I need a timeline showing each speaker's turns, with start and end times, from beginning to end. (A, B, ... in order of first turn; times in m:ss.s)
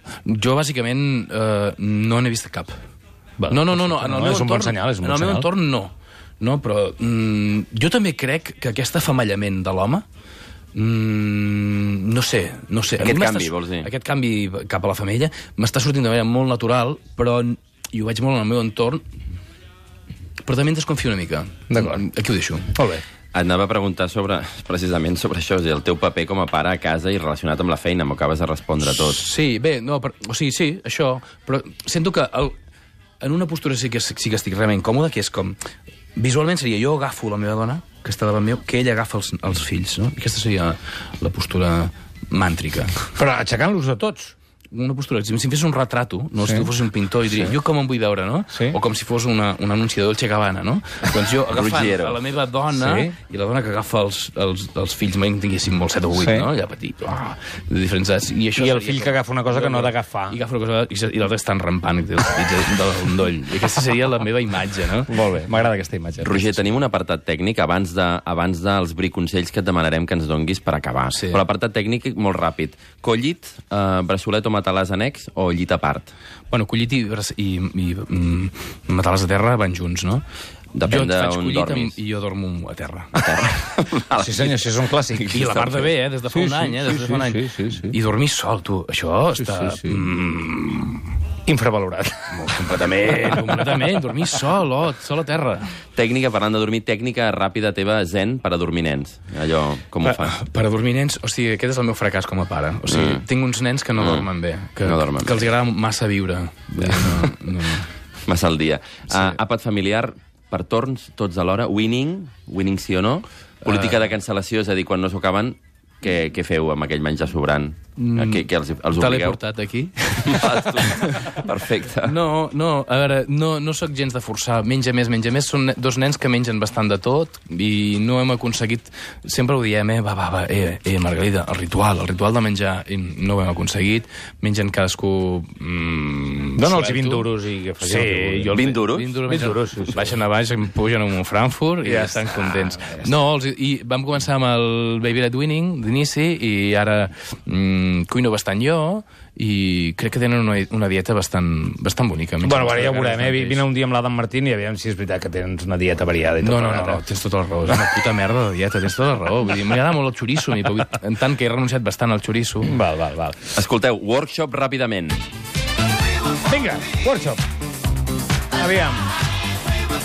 0:00.3-0:02.8 A
0:03.4-0:05.5 B
0:03.5-0:10.0 A
0:10.7-0:19.0 A
0:13.0-0:13.9 C
0:20.4-0:22.8 A
0:21.7-0:22.0 B
0:22.8-0:23.0 B
0:23.3-0:29.2 C
0:28.9-0:32.6 A
0:33.2-0:35.6 A
0:36.2-0:43.0 A
0:43.2-0:44.4 B
0:44.7-1:05.1 A
0:46.4-0:46.7 B
0:47.3-0:47.6 B
0:48.5-0:48.8 B
0:51.5-0:52.2 C
0:52.7-0:53.2 B
0:56.1-0:56.5 B
0:58.6-1:00.4 B
1:05.1-1:06.6 B
1:06.2-1:16.1 C
1:11.1-1:11.4 A
1:16.5-1:20.2 A
1:20.8-1:22.0 C
1:20.9-1:23.1 A
1:23.2-1:23.5 B
1:23.2-1:25.9 C
1:24.2-1:28.0 B
1:25.3-1:31.1 A
1:29.4-1:30.1 B
1:31.5-1:34.3 B
1:32.3-1:35.8 A
1:36.0-1:40.4 C
1:40.0-1:47.9 A
1:42.9-1:43.2 C
1:44.0-1:44.3 C
1:44.8-1:45.4 C
1:46.8-1:47.4 C
1:48.3-1:59.4 C
1:49.1-1:49.4 A
1:53.6-1:54.1 A
1:58.0-2:01.5 A
2:00.2-2:02.2 C
2:02.0-2:17.3 A
2:16.6-2:18.8 B
2:17.8-2:33.6 A
2:18.5-2:19.2 C
2:19.3-2:20.2 B
2:21.8-2:23.2 B
2:32.4-2:37.0 B
2:36.4-2:42.8 A
2:42.6-2:43.6 B
2:43.5-2:45.3 C
2:46.4-2:47.4 B
2:48.6-2:49.1 B